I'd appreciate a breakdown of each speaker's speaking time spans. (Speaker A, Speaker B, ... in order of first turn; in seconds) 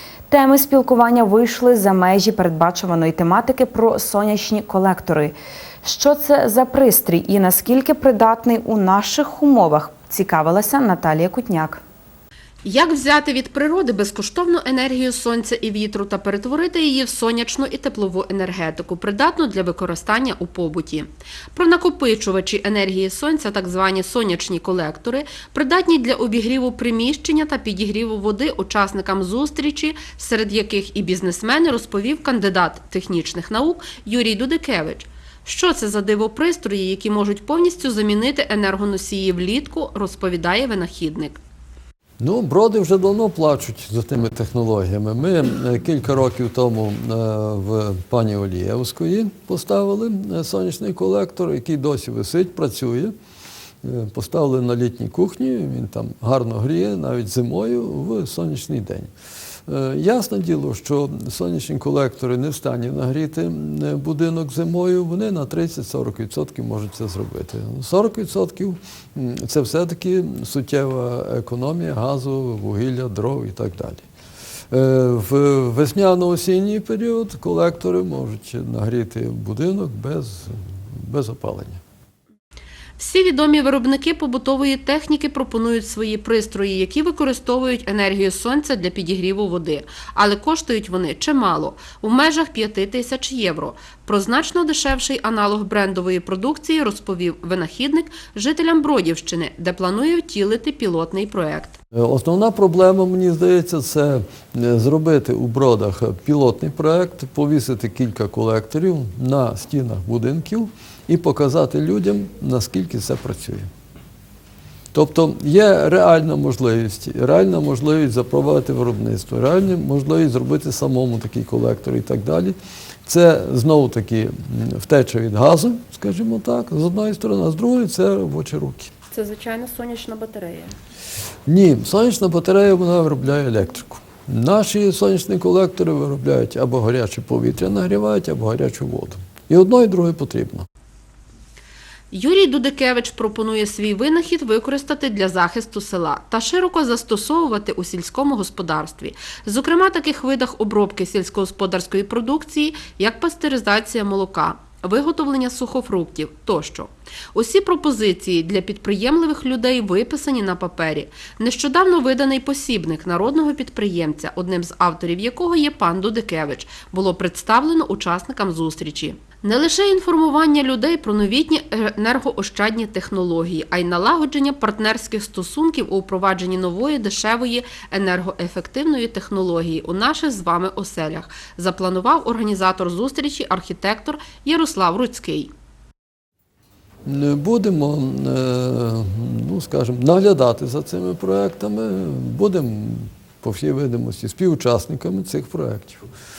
Speaker A: 0.3-5.3, 5.8-11.8
Speaker B: 12.6-41.4, 83.0-101.8, 129.1-130.8, 142.1-185.5
Speaker C: 42.2-53.1, 53.8-59.1, 59.7-74.0, 74.7-81.8, 101.9-113.7, 114.9-128.9, 131.5-140.7, 187.1-196.0